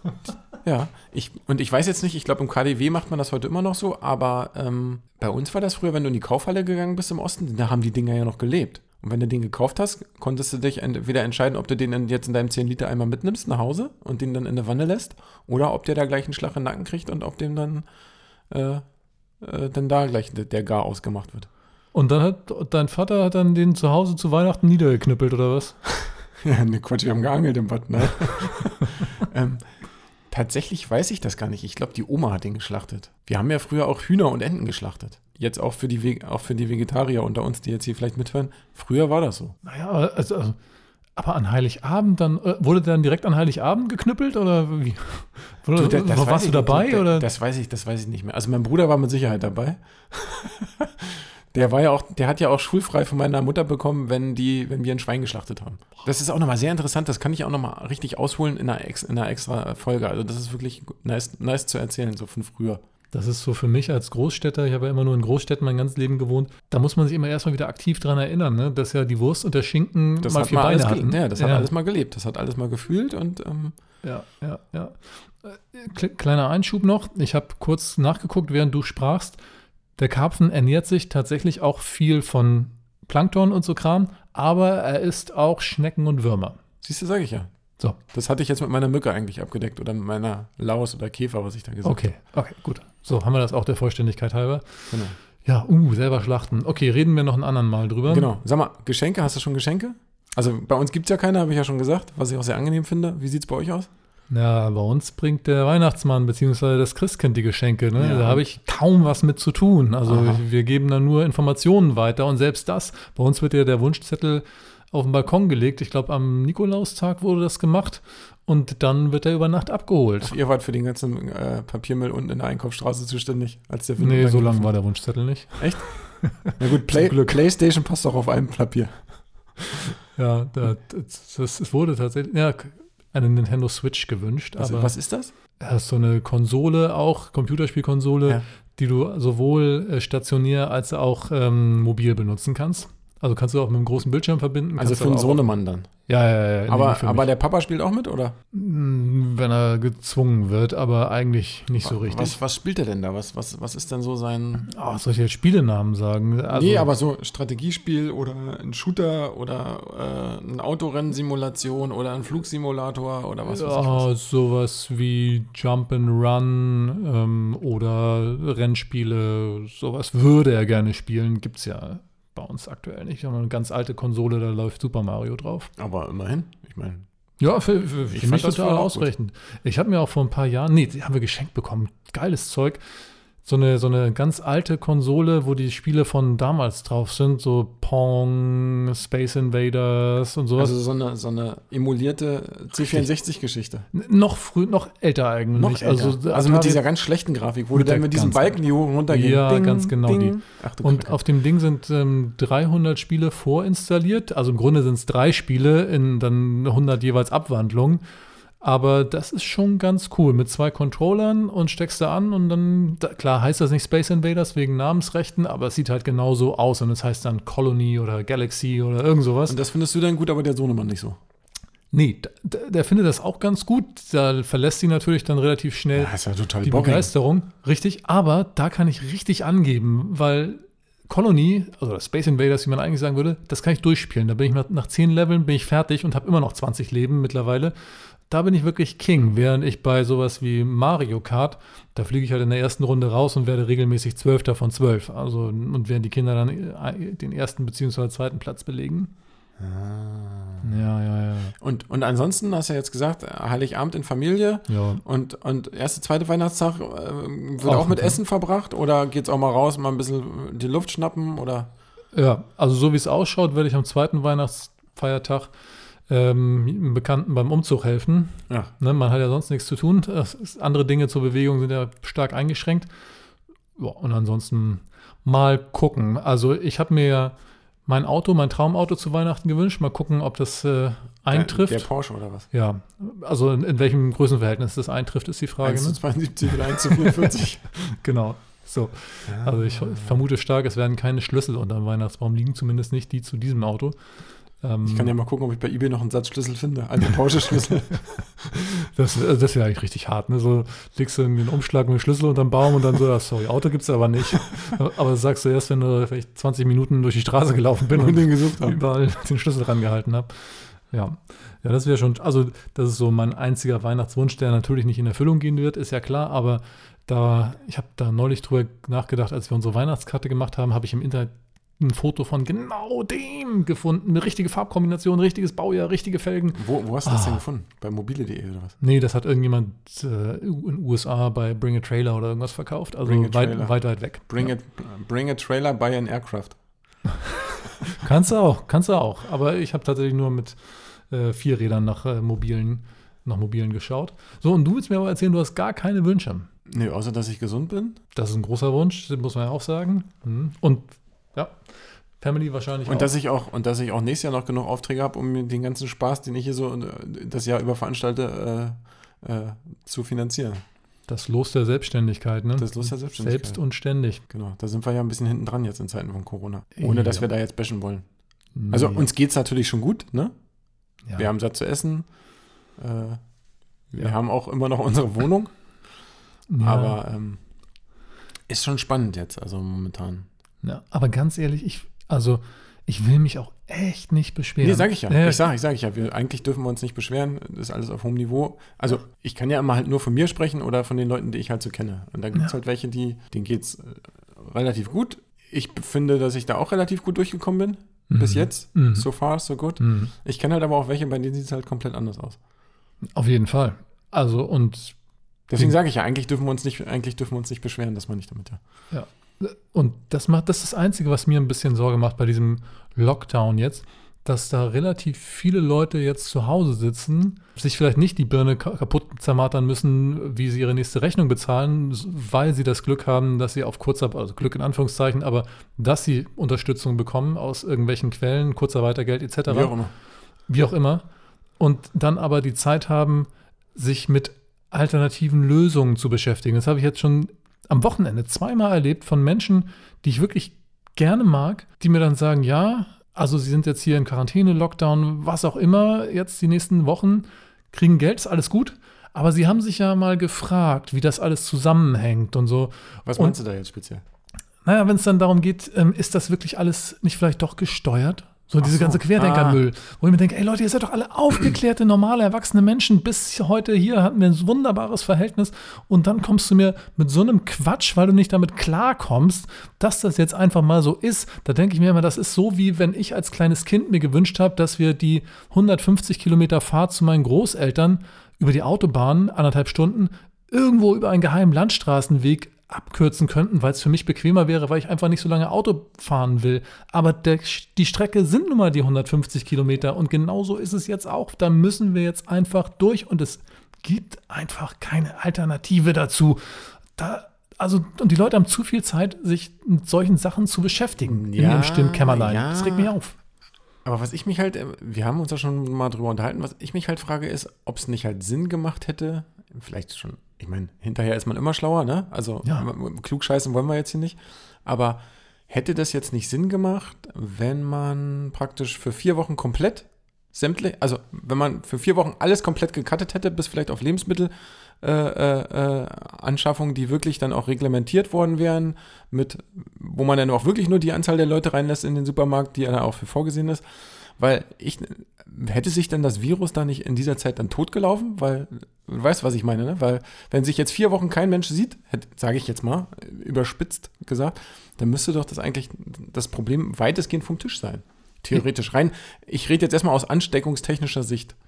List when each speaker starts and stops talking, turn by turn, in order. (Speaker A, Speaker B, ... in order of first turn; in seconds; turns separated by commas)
Speaker A: 0.6-17.9, Speaker A: 18.5-18.8, Speaker A: 19.4-21.5, Speaker B: 21.9-25.8, Speaker A: 26.4-29.6, Speaker A: 30.3-39.5, Speaker B: 39.6-40.6, Speaker B: 41.2-47.3, Speaker A: 45.8-62.8, Speaker B: 63.1-71.7, Speaker A: 70.2-73.8, Speaker B: 74.0-79.4, Speaker B: 80.0-86.6, Speaker A: 86.8-87.5, Speaker A: 88.1-92.0, Speaker B: 91.8-98.3, Speaker A: 98.1-103.9, Speaker B: 104.3-120.4, Speaker A: 108.0-108.4, Speaker A: 110.1-110.4, Speaker A: 120.2-124.7, Speaker B: 124.0-127.2, Speaker A: 125.6-125.9, Speaker A: 126.6-128.9, Speaker B: 130.2-134.9, Speaker A: 134.6-135.3, Speaker B: 135.6-145.4, Speaker A: 144.8-145.9, Speaker B: 146.1-147.3, Speaker A: 146.7-148.4, Speaker B: 148.5-152.4, Speaker A: 151.8-154.7, Speaker B: 154.6-156.9, Speaker A: 156.5-164.1, Speaker B: 163.5-175.7, Speaker A: 175.8-177.1, Speaker B: 177.4-182.8, Speaker A: 178.1-179.1, Speaker B: 183.4-190.8, Speaker A: 190.6-193.9, Speaker B: 193.9-196.8, Speaker A: 195.6-201.2, Speaker B: 197.7-198.6, Speaker B: 199.1-208.0, Speaker B: 208.6-219.6, Speaker A: 219.5-221.2, Speaker B: 221.9-237.7, Speaker A: 225.9-227.1, Speaker B: 238.3-249.1, Speaker A: 249.6-250.7, Speaker B: 250.6-251.6, Speaker A: 251.6-261.7, Speaker B: 254.7-255.0, Speaker B: 257.6-258.2, Speaker B: 262.1-265.5, Speaker B: 266.1-272.9, Speaker B: 273.8-277.3, Speaker B: 277.9-281.9, Speaker A: 281.3-282.5, Speaker B: 282.5-286.0, Speaker A: 285.6-287.6, Speaker B: 286.5-294.0, Speaker A: 289.3-290.2, Speaker B: 294.6-295.1, Speaker A: 294.9-298.5, Speaker B: 298.5-310.3, Speaker A: 307.9-308.8, Speaker B: 310.9-327.4, Speaker A: 326.6-328.8, Speaker B: 328.8-334.5, Speaker A: 333.1-333.8, Speaker A: 334.3-336.6, Speaker B: 337.8-340.6, Speaker B: 341.1-346.5, Speaker A: 346.7-348.0, Speaker B: 348.1-351.6, Speaker B: 352.2-353.1, Speaker A: 352.9-360.6, Speaker B: 361.1-364.2, Speaker A: 362.6-363.6, Speaker A: 364.3-368.1, Speaker B: 366.8-367.2, Speaker B: 368.6-369.1, Speaker A: 368.7-370.3, Speaker A: 371.2-372.1, Speaker A: 372.8-373.2, Speaker A: 373.9-375.5, Speaker B: 376.5-377.0, Speaker A: 376.6-377.4, Speaker A: 378.5-380.3, Speaker B: 380.6-385.4, Speaker A: 384.6-402.4, Speaker B: 398.1-399.1, Speaker B: 399.8-400.1, Speaker B: 403.2-405.0, Speaker A: 405.5-408.6, Speaker B: 408.9-429.8, Speaker A: 429.5-429.9, Speaker B: 430.5-431.0, Speaker B: 431.6-453.4, Speaker A: 453.1-454.0, Speaker B: 454.6-503.1, Speaker A: 458.6-459.6, Speaker A: 501.1-502.9, Speaker A: 503.9-533.6, Speaker A: 534.2-551.4